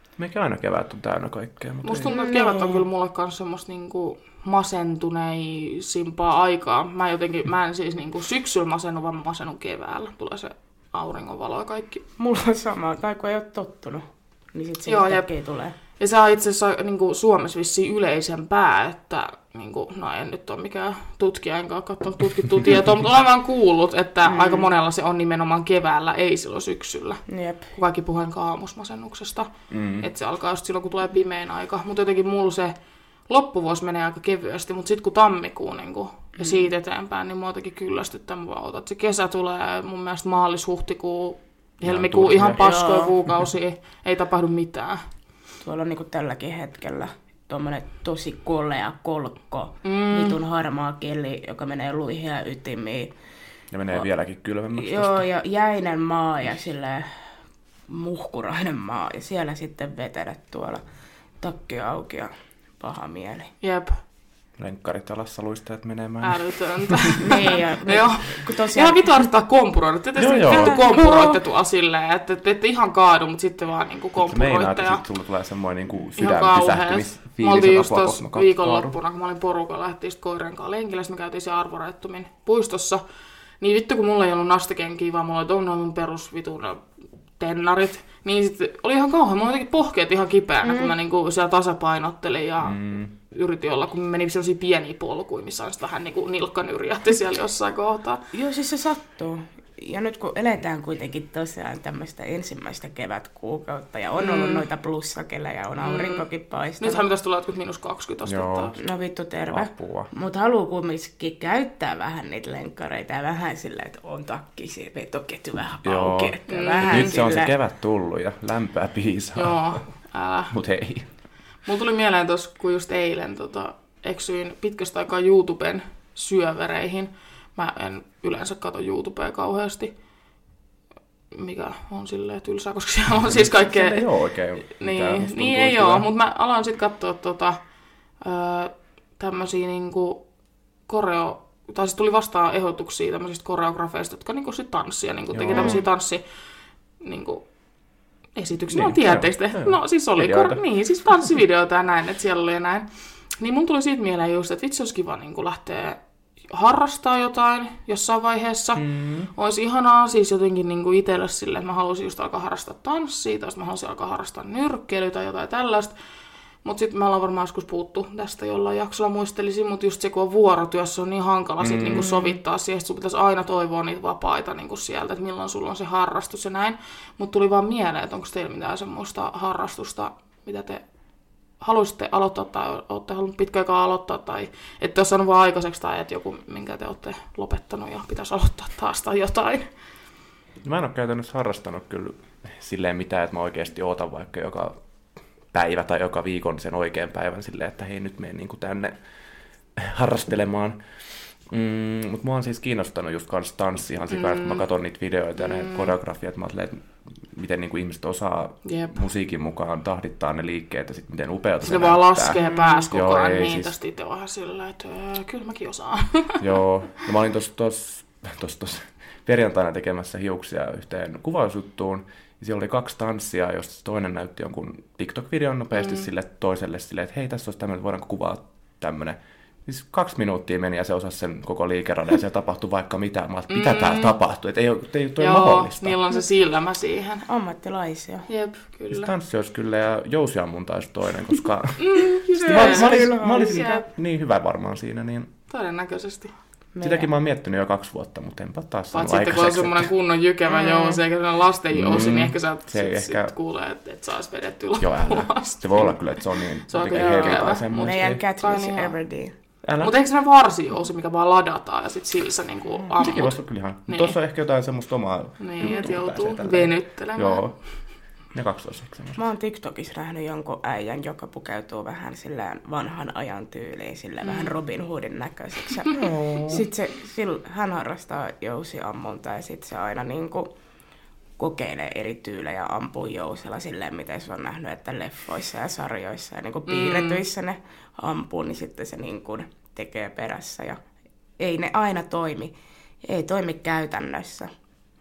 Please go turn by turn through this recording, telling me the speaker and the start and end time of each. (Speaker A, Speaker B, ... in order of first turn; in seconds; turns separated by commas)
Speaker A: 0.2-2.1, Speaker B: 1.8-12.1, Speaker C: 2.0-2.9, Speaker C: 12.2-15.8, Speaker B: 14.9-15.3, Speaker B: 16.0-32.8, Speaker C: 24.2-24.7, Speaker C: 27.3-27.7, Speaker A: 29.7-30.1, Speaker B: 33.3-45.0, Speaker C: 36.4-36.7, Speaker A: 41.8-42.6, Speaker C: 42.6-43.1, Speaker C: 45.6-53.1, Speaker B: 49.8-50.4, Speaker A: 53.7-55.3, Speaker C: 54.8-57.3, Speaker C: 57.9-60.8, Speaker C: 61.4-63.5, Speaker B: 63.6-64.0, Speaker A: 64.6-67.1, Speaker B: 66.2-75.0, Speaker C: 67.2-69.2, Speaker A: 70.2-70.8, Speaker C: 70.3-71.4, Speaker A: 74.2-78.9, Speaker B: 76.2-83.0, Speaker B: 83.6-86.8, Speaker B: 87.4-98.3, Speaker C: 90.6-91.0, Speaker A: 92.6-93.1, Speaker C: 98.3-107.0, Speaker B: 104.2-104.6, Speaker B: 105.8-106.2, Speaker B: 106.8-108.8, Speaker A: 108.2-108.8, Speaker C: 108.8-117.5, Speaker A: 109.5-110.1, Speaker A: 115.8-119.9, Speaker B: 116.5-117.1, Speaker B: 119.4-120.5, Speaker A: 120.5-121.1, Speaker B: 121.7-129.9, Speaker B: 131.3-134.1, Speaker A: 133.2-136.1, Speaker B: 134.7-137.6, Speaker B: 138.2-140.2, Speaker B: 140.9-146.2, Speaker A: 145.3-145.8, Speaker C: 145.5-145.8, Speaker B: 147.0-147.5, Speaker B: 148.4-165.9, Speaker A: 148.7-150.6, Speaker A: 158.8-159.3, Speaker B: 166.6-180.8, Speaker A: 171.6-172.1, Speaker C: 171.9-172.4, Speaker B: 181.6-189.7, Speaker A: 190.6-194.8, Speaker A: 195.5-199.0, Speaker A: 199.8-213.7, Speaker B: 204.1-204.7, Speaker B: 205.4-205.9, Speaker B: 208.6-209.0, Speaker B: 211.6-216.4, Speaker C: 212.4-212.8, Speaker A: 216.4-236.0, Speaker B: 225.7-226.1, Speaker B: 233.5-234.2, Speaker B: 235.2-237.3, Speaker C: 237.3-238.3, Speaker B: 238.3-239.1, Speaker A: 238.9-245.3, Speaker B: 241.8-243.9, Speaker C: 242.5-243.8, Speaker B: 245.5-246.3, Speaker C: 246.8-247.1, Speaker A: 246.8-249.9, Speaker B: 248.9-256.0, Speaker C: 250.5-251.0, Speaker A: 251.7-253.3, Speaker A: 254.8-258.2, Speaker B: 256.7-258.9, Speaker C: 257.0-259.4, Speaker A: 259.6-259.9, Speaker B: 259.8-264.1, Speaker A: 263.0-267.6, Speaker B: 265.4-267.4, Speaker A: 268.3-269.2, Speaker C: 269.2-280.5, Speaker B: 274.2-274.5, Speaker A: 275.9-276.6, Speaker C: 281.4-290.8, Speaker B: 286.7-287.2, Speaker C: 291.4-294.5